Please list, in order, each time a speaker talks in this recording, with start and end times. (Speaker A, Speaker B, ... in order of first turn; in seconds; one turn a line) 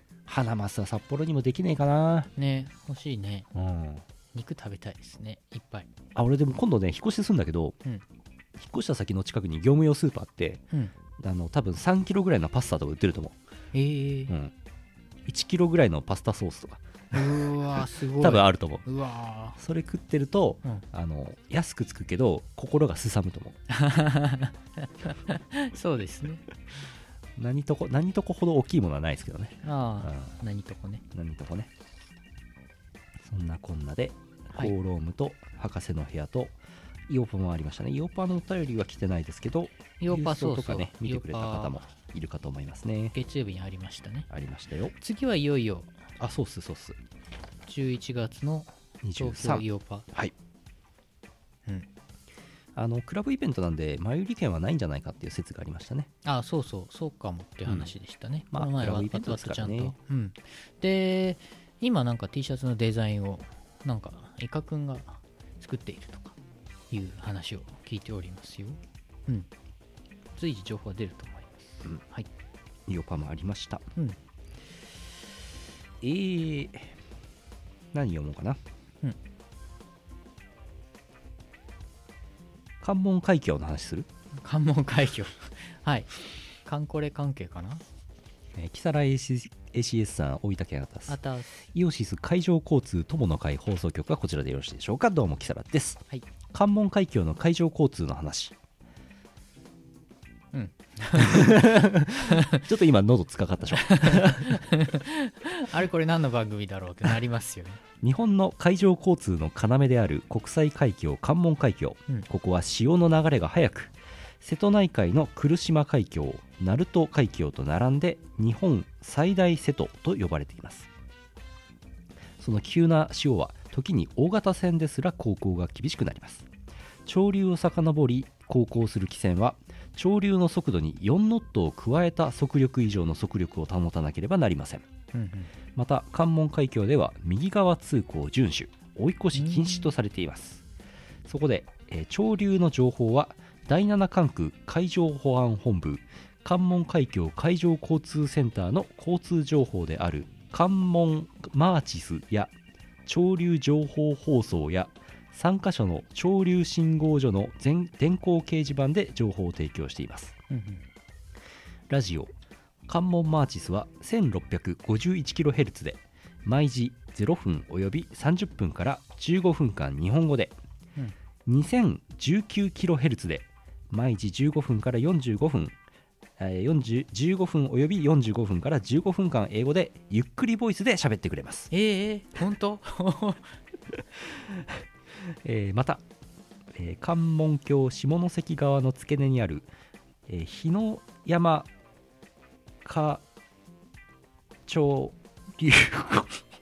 Speaker A: 0.3-2.3
Speaker B: 2.4-3.5
Speaker A: 3.5-4.0
Speaker B: 4.3-5.9
Speaker A: 6.2-7.8
Speaker A: 8.6-10.6
Speaker A: 11.2-13.4
Speaker B: 13.7-14.3
Speaker A: 15.3-18.9
Speaker B: 17.1-19.6
Speaker A: 19.6-23.6
Speaker B: 23.7-26.4
Speaker A: 27.4-30.4
Speaker B: 29.6-31.0
Speaker A: 31.1-31.7
Speaker A: 33.2-36.6
Speaker A: 37.1-43.2
Speaker B: 40.0-41.9
Speaker B: 43.1-44.3
Speaker A: 44.3-44.9
Speaker B: 45.0-45.9
Speaker A: 46.2-47.0
Speaker B: 47.7-50.1
Speaker A: 49.0-50.3
Speaker A: 52.8-56.1
Speaker B: 56.2-66.4
Speaker A: 57.7-57.9
Speaker A: 58.5-60.0
Speaker B: 66.9-69.5
Speaker B: 70.3-72.3
Speaker A: 72.9-73.9
Speaker A: 76.0-76.9
Speaker A: 77.9-78.6
Speaker A: 82.8-84.1
Speaker B: 84.4-87.8
Speaker A: 88.6-91.2
Speaker B: 91.1-91.6
Speaker A: 91.7-98.5
Speaker B: 100.5-101.7
Speaker A: 101.2-104.5
Speaker B: 103.8-107.8
Speaker A: 108.0-120.9
Speaker A: 122.4-126.5
Speaker A: 127.1-134.9
Speaker B: 135.1-135.5
Speaker A: 135.7-140.6
Speaker B: 139.3-139.9
Speaker A: 141.3-152.5
Speaker A: 153.1-160.4
Speaker B: 160.5-160.8
Speaker A: 161.9-162.3
Speaker A: 162.9-170.6
Speaker A: 171.5-175.8
Speaker A: 176.4-181.7
Speaker B: 181.7-183.5
Speaker A: 185.3-186.0
Speaker A: 186.7-189.7
Speaker A: 190.3-191.7
Speaker A: 192.8-193.2
Speaker A: 194.7-196.4